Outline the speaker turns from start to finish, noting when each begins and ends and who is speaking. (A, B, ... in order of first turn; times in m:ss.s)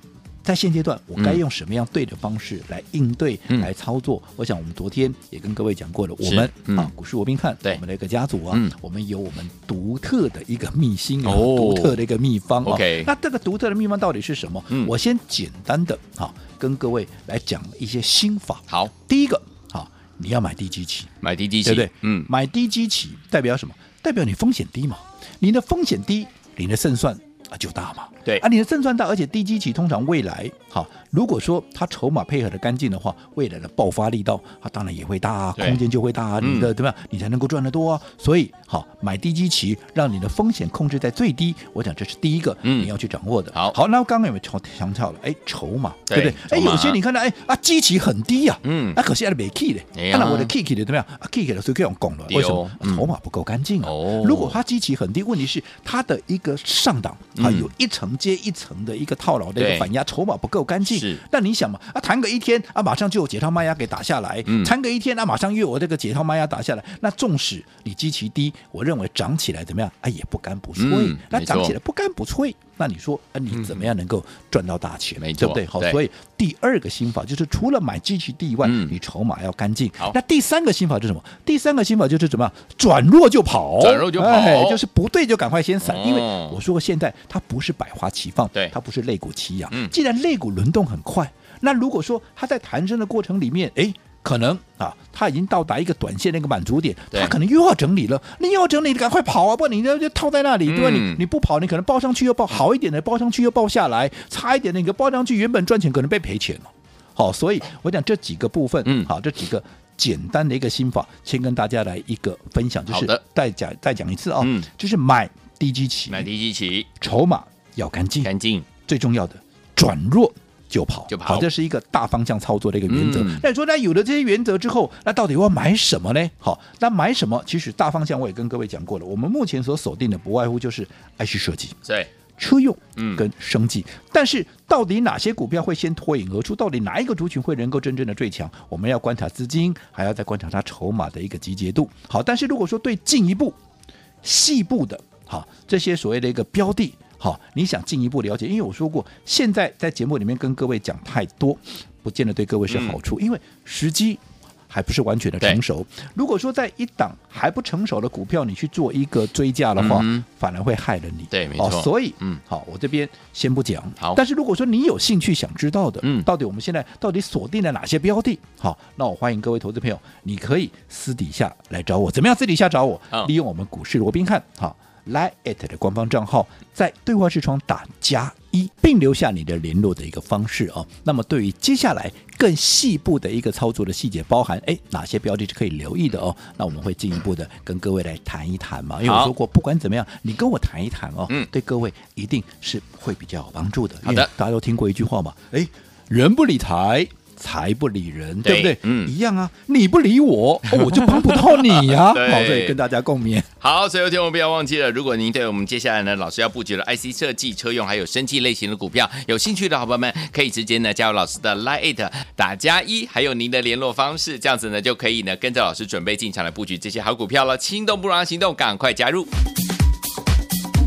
0:00.4-0:21.1 A
0:06.2-0:06.9 B
0:11.2-0:12.0 B
0:12.6-0:13.1 B
0:21.2-0:22.3 B
0:21.6-1:56.3 A
0:36.4-0:36.7 B
0:42.6-0:42.9 B
0:46.1-0:47.0 B
0:48.6-0:49.0 B
0:50.0-0:50.5 B
0:52.3-0:53.1 B
0:53.8-0:54.6 B
0:57.4-0:57.7 B
0:59.6-0:59.9 B
1:00.9-1:01.2 B
1:04.5-1:04.7 B
1:10.8-1:11.8 B
1:13.5-1:13.8 B
1:15.2-1:16.0 B
1:18.6-1:19.0 B
1:23.8-1:24.8 B
1:25.8-1:26.6 B
1:40.6-1:41.2 B
1:52.9-1:53.2 B
1:54.4-1:54.7 B
1:56.1-1:56.9 B
1:57.0-1:58.3 A
1:58.2-1:58.7 B
1:58.8-2:11.8 A
2:01.1-2:01.5 B
2:02.9-2:03.4 B
2:12.4-2:23.6 A
2:13.0-2:13.2 B
2:24.2-3:23.5 A
2:32.7-2:33.0 B
2:39.8-2:40.2 B
2:41.3-2:42.4 B
3:09.0-3:09.3 B
3:14.0-3:14.3 B
3:18.4-3:19.1 B
3:20.9-3:22.8 B
3:23.6-3:39.3 B